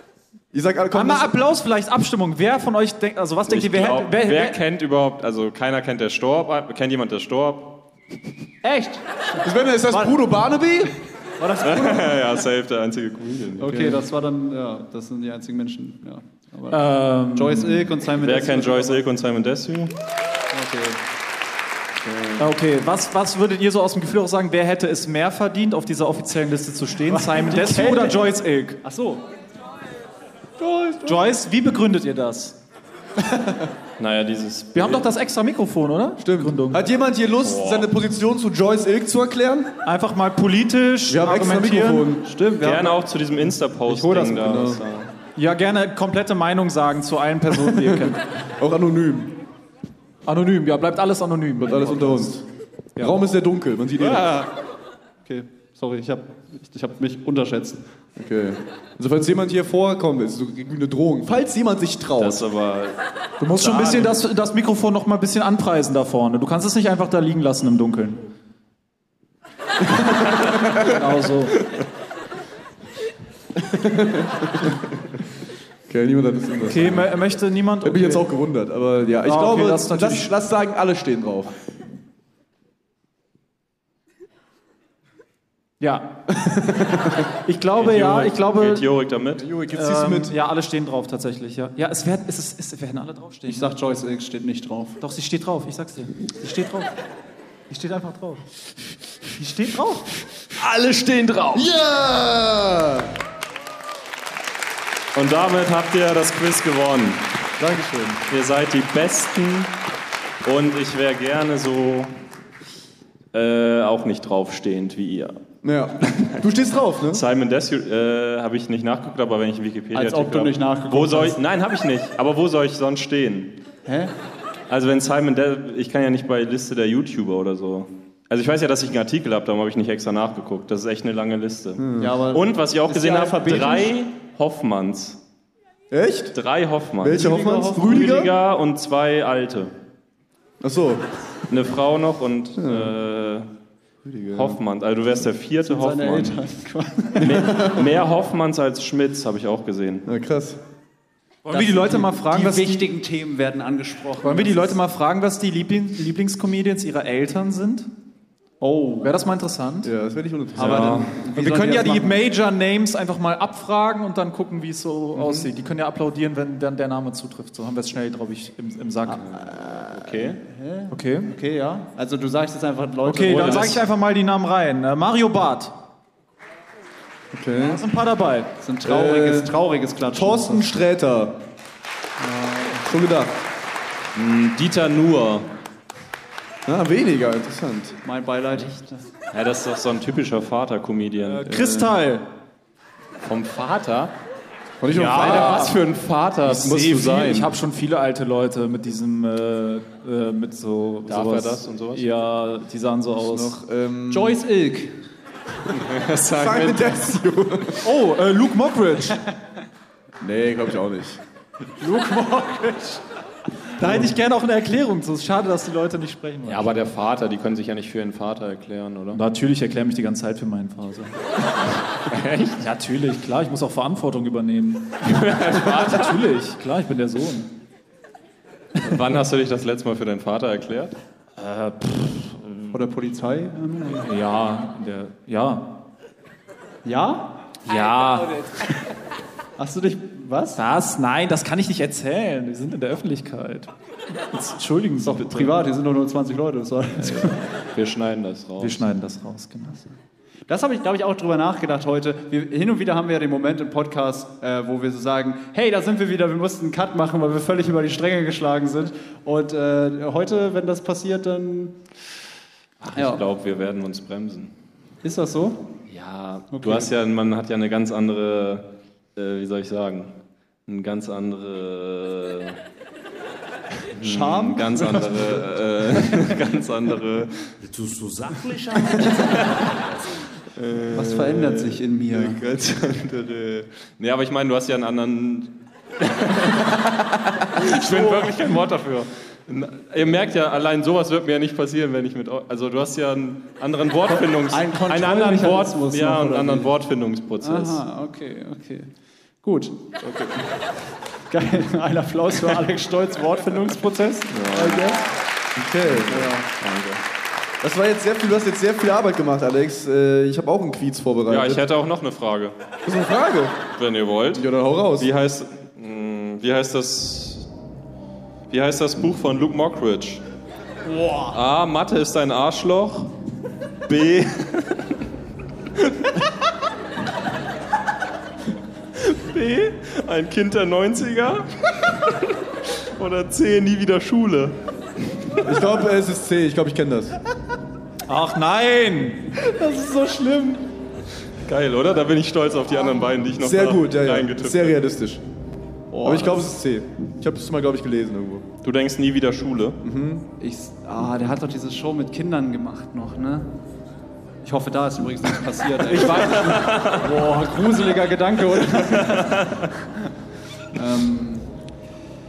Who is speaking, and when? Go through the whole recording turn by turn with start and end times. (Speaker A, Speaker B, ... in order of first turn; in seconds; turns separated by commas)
Speaker A: 0.5-1.4, Speaker B: 0.9-4.6, Speaker C: 3.5-7.8, Speaker D: 8.6-9.0, Speaker A: 9.4-10.9, Speaker D: 9.9-10.2, Speaker D: 11.4-12.3, Speaker C: 11.6-13.9, Speaker D: 13.6-19.0, Speaker B: 16.7-17.8, Speaker C: 18.1-19.9, Speaker D: 20.5-21.0, Speaker B: 22.4-28.8, Speaker D: 27.1-29.2, Speaker D: 30.6-30.9, Speaker A: 30.6-31.1, Speaker B: 31.0-32.5, Speaker C: 34.0-35.0, Speaker B: 34.7-36.8, Speaker A: 36.2-39.7, Speaker C: 37.4-37.9, Speaker B: 39.8-42.1, Speaker A: 41.1-42.3, Speaker D: 42.2-43.0, Speaker C: 42.6-45.1, Speaker D: 43.9-44.3, Speaker A: 44.2-44.8, Speaker B: 45.4-48.2, Speaker A: 47.8-49.3, Speaker B: 50.2-52.3, Speaker A: 51.6-52.4, Speaker A: 53.0-54.3, Speaker D: 54.0-54.5, Speaker D: 55.2-57.8, Speaker A: 58.1-62.4, Speaker C: 62.2-63.0, Speaker B: 63.4-68.2, Speaker C: 63.5-64.2, Speaker A: 69.9-70.5, Speaker B: 70.7-71.6, Speaker A: 73.5-74.8, Speaker A: 75.9-77.1, Speaker B: 76.6-78.2, Speaker A: 77.8-81.5, Speaker B: 79.2-80.3, Speaker B: 85.8-86.1, Speaker A: 86.5-87.1, Speaker B: 87.4-88.8, Speaker C: 87.8-89.4, Speaker A: 89.4-90.3, Speaker B: 89.7-93.7, Speaker D: 93.5-95.0, Speaker B: 95.0-96.9, Speaker B: 97.7-98.4, Speaker B: 99.2-100.1, Speaker C: 100.5-101.7, Speaker A: 101.5-103.1, Speaker C: 105.1-107.2, Speaker B: 107.6-107.9, Speaker C: 108.3-109.7, Speaker C: 110.4-112.1, Speaker C: 113.3-115.4, Speaker A: 115.6-117.2, Speaker C: 117.1-123.5, Speaker D: 119.9-121.4, Speaker D: 123.8-124.1, Speaker C: 124.7-135.2, Speaker A: 131.8-132.1, Speaker D: 132.0-133.9, Speaker A: 135.9-136.3, Speaker C: 136.3-139.7, Speaker A: 137.0-138.3, Speaker D: 137.1-138.1, Speaker A: 140.6-141.0, Speaker C: 141.5-143.5, Speaker A: 142.6-142.9, Speaker A: 144.0-144.6, Speaker C: 144.3-146.4, Speaker D: 145.6-147.5, Speaker C: 147.2-150.1, Speaker A: 147.4-147.8, Speaker A: 150.1-150.6, Speaker B: 151.4-152.9, Speaker D: 151.5-154.8, Speaker B: 154.2-157.9, Speaker D: 158.6-159.1, Speaker B: 159.0-159.9, Speaker A: 159.8-161.1, Speaker D: 160.6-162.2, Speaker C: 160.6-161.0, Speaker B: 161.3-169.2, Speaker A: 165.1-165.5, Speaker C: 169.8-170.4, Speaker D: 170.1-173.8, Speaker B: 170.9-171.3, Speaker B: 173.0-175.7, Speaker C: 173.2-173.8, Speaker A: 177.3-177.8, Speaker B: 177.6-178.5, Speaker D: 178.6-180.7, Speaker A: 178.8-179.5, Speaker A: 180.1-181.4, Speaker D: 182.2-182.9, Speaker A: 182.8-183.3, Speaker C: 184.1-185.5, Speaker A: 186.7-188.0, Speaker D: 188.0-189.1, Speaker C: 189.3-191.4, Speaker B: 191.2-192.2, Speaker A: 191.4-191.9, Speaker C: 193.2-194.1, Speaker A: 194.8-195.8, Speaker B: 194.9-195.8, Speaker C: 194.9-197.5, Speaker B: 196.4-203.6, Speaker C: 201.1-202.1, Speaker A: 203.2-204.4, Speaker D: 204.1-204.9, Speaker C: 205.7-206.9, Speaker A: 206.3-207.9, Speaker B: 207.8-209.2, Speaker A: 210.2-211.2, Speaker D: 211.8-213.0, Speaker B: 213.8-216.7, Speaker C: 216.4-219.2, Speaker B: 219.1-221.2, Speaker C: 222.1-222.6, Speaker B: 222.6-227.5, Speaker C: 225.0-226.2, Speaker C: 228.8-230.9, Speaker B: 231.4-232.7, Speaker D: 232.7-234.1, Speaker B: 234.0-235.8, Speaker D: 236.8-237.3, Speaker C: 237.7-238.5, Speaker D: 239.6-240.6, Speaker B: 240.6-243.7, Speaker B: 244.3-245.5, Speaker D: 245.0-247.4, Speaker C: 247.7-248.8, Speaker B: 248.6-249.9, Speaker D: 250.5-261.7, Speaker C: 262.8-264.5, Speaker D: 262.9-263.2, Speaker D: 265.0-265.6, Speaker C: 265.9-270.1, Speaker D: 266.5-266.9, Speaker C: 270.7-272.6, Speaker C: 273.9-277.5, Speaker D: 274.0-275.4, Speaker E: 277.6-280.1, Speaker C: 279.1-279.7, Speaker C: 280.5-297.8, Speaker D: 280.9-282.4, Speaker D: 287.9-288.4, Speaker D: 294.1-296.7, Speaker D: 297.4-298.9, Speaker D: 299.4-299.8, Speaker C: 300.0-300.4, Speaker D: 301.3-305.0, Speaker C: 304.3-305.0, Speaker A: 305.6-306.3, Speaker C: 305.9-307.0, Speaker D: 306.1-306.5, Speaker A: 307.6-311.6, Speaker C: 311.3-312.5, Speaker A: 312.9-313.6, Speaker C: 313.8-317.5, Speaker A: 314.3-315.1, Speaker C: 318.5-320.2, Speaker D: 320.9-321.3, Speaker C: 321.3-323.1, Speaker C: 323.9-324.9, Speaker C: 325.8-326.1, Speaker C: 329.0-334.5, Speaker A: 335.4-337.1, Speaker B: 338.1-339.4, Speaker D: 339.4-340.7, Speaker C: 341.4-344.8, Speaker A: 343.4-345.2, Speaker D: 345.9-346.5, Speaker A: 346.0-348.4, Speaker C: 348.6-349.8, Speaker A: 349.8-350.2, Speaker D: 350.4-353.5, Speaker D: 354.4-359.6, Speaker C: 355.9-357.2, Speaker B: 356.2-356.6, Speaker C: 358.9-359.5, Speaker D: 360.7-361.5